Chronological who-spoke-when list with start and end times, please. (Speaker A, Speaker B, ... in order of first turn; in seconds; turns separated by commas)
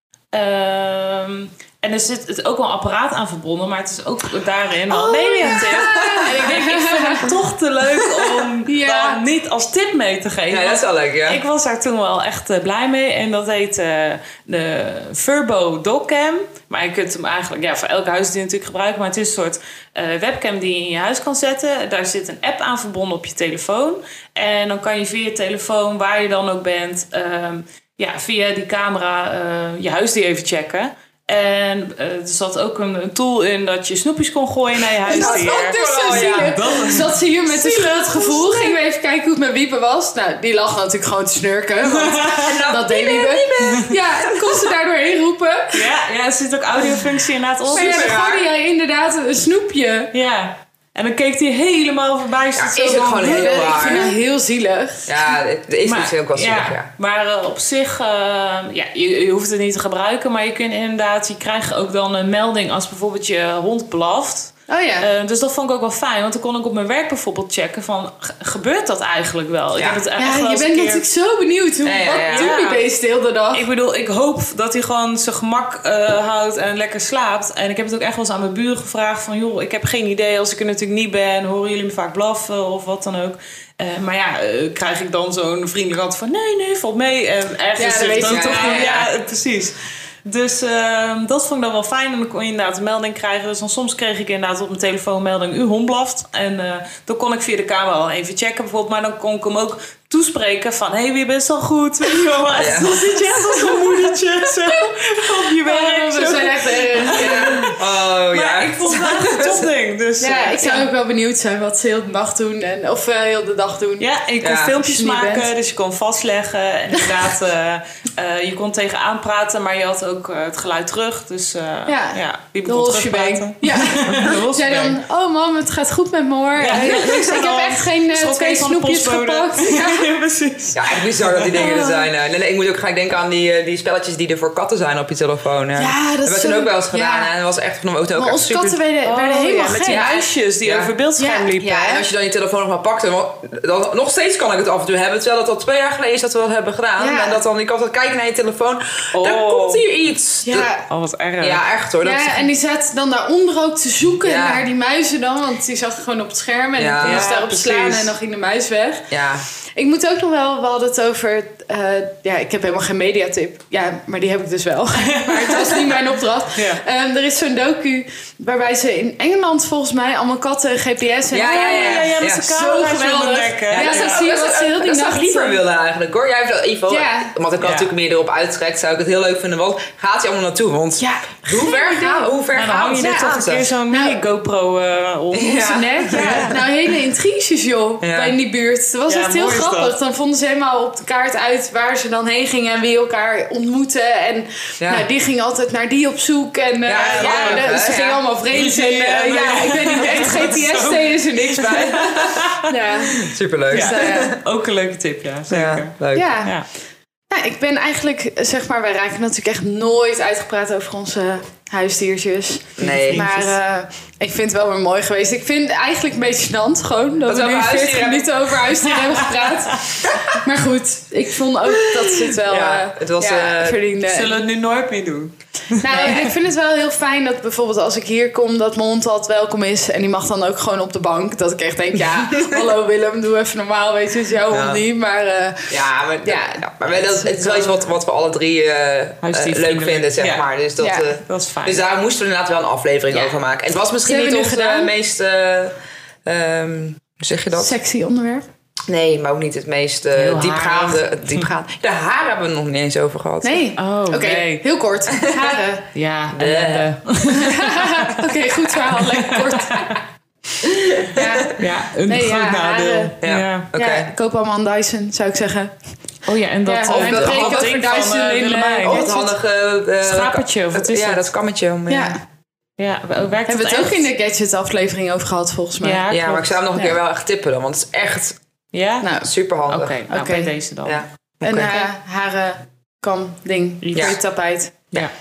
Speaker A: 0.3-37.2, Speaker B: 4.9-7.3, Speaker C: 5.8-6.3, Speaker B: 8.6-9.2, Speaker C: 10.5-11.4, Speaker B: 35.1-45.9, Speaker C: 35.1-36.6, Speaker C: 37.5-38.7, Speaker A: 41.8-42.5, Speaker C: 42.4-44.7, Speaker A: 45.7-48.2, Speaker C: 47.7-48.5, Speaker B: 47.7-50.1, Speaker A: 50.1-54.0, Speaker C: 52.5-54.1, Speaker B: 52.8-55.1, Speaker C: 55.1-56.9, Speaker A: 55.8-71.0, Speaker B: 64.7-65.1, Speaker C: 69.8-70.0, Speaker B: 70.2-73.6, Speaker C: 71.8-72.5, Speaker A: 72.3-72.8, Speaker A: 73.5-110.9, Speaker B: 87.8-89.0, Speaker C: 88.2-89.1, Speaker C: 102.5-103.0, Speaker B: 103.3-107.7, Speaker C: 107.0-109.7, Speaker B: 110.2-114.1, Speaker A: 114.0-125.0, Speaker C: 114.4-114.7, Speaker B: 114.8-115.5, Speaker B: 121.9-130.1, Speaker A: 126.6-130.9, Speaker C: 130.7-138.8, Speaker B: 131.5-132.1, Speaker B: 135.8-137.3, Speaker B: 138.2-140.2, Speaker A: 139.0-142.0, Speaker C: 139.8-140.9, Speaker B: 141.2-141.5, Speaker C: 141.6-150.7, Speaker B: 147.0-147.4, Speaker A: 149.1-149.8, Speaker B: 150.4-150.8, Speaker A: 150.9-151.6, Speaker C: 151.4-152.5, Speaker B: 152.0-159.1, Speaker C: 154.2-154.7, Speaker C: 156.8-157.3, Speaker A: 157.0-158.1, Speaker C: 159.1-159.4, Speaker B: 159.8-175.6, Speaker A: 165.1-165.7, Speaker A: 166.5-166.8, Speaker C: 171.3-172.4, Speaker A: 171.4-174.2, Speaker C: 173.7-183.7, Speaker B: 176.9-177.3, Speaker A: 177.6-177.9, Speaker B: 181.0-182.3, Speaker A: 182.5-186.6, Speaker B: 183.9-184.2, Speaker C: 185.3-186.6, Speaker B: 185.5-204.3, Speaker C: 188.0-188.3, Speaker A: 189.1-189.9, Speaker C: 194.8-195.1, Speaker C: 196.8-198.2, Speaker A: 197.0-197.8, Speaker A: 198.5-203.1, Speaker C: 203.2-204.4, Speaker A: 203.7-206.7, Speaker C: 205.5-206.3, Speaker B: 206.1-206.5, Speaker B: 207.3-224.4, Speaker C: 212.8-213.2, Speaker A: 212.8-213.6, Speaker C: 217.2-218.3, Speaker A: 219.0-219.5, Speaker C: 222.2-223.8, Speaker A: 224.0-226.3, Speaker B: 225.8-237.8, Speaker C: 232.1-232.6, Speaker C: 234.5-234.8, Speaker C: 235.7-247.7, Speaker A: 239.2-240.5, Speaker B: 240.8-241.1, Speaker A: 241.2-241.8, Speaker B: 244.0-244.9, Speaker B: 247.5-248.4, Speaker C: 248.9-253.7, Speaker A: 250.1-251.4, Speaker B: 253.4-255.8, Speaker A: 253.8-254.6, Speaker C: 255.2-255.5, Speaker A: 255.9-258.4, Speaker C: 256.3-256.9, Speaker B: 257.3-260.0, Speaker A: 258.9-259.8, Speaker C: 260.6-261.5, Speaker B: 261.1-263.1, Speaker A: 261.6-263.7, Speaker C: 263.2-264.1, Speaker B: 263.7-265.7, Speaker A: 266.2-269.0, Speaker B: 266.6-269.3, Speaker C: 266.9-267.9, Speaker C: 268.8-272.1, Speaker A: 270.0-271.3, Speaker B: 271.9-272.2, Speaker A: 272.8-274.1, Speaker B: 273.4-276.0, Speaker A: 275.8-276.6, Speaker C: 276.1-278.4, Speaker A: 278.7-279.1, Speaker B: 279.0-279.3, Speaker C: 279.2-280.1, Speaker A: 279.7-281.9, Speaker B: 280.1-280.5, Speaker C: 280.8-281.7, Speaker B: 281.4-284.9, Speaker A: 283.8-284.2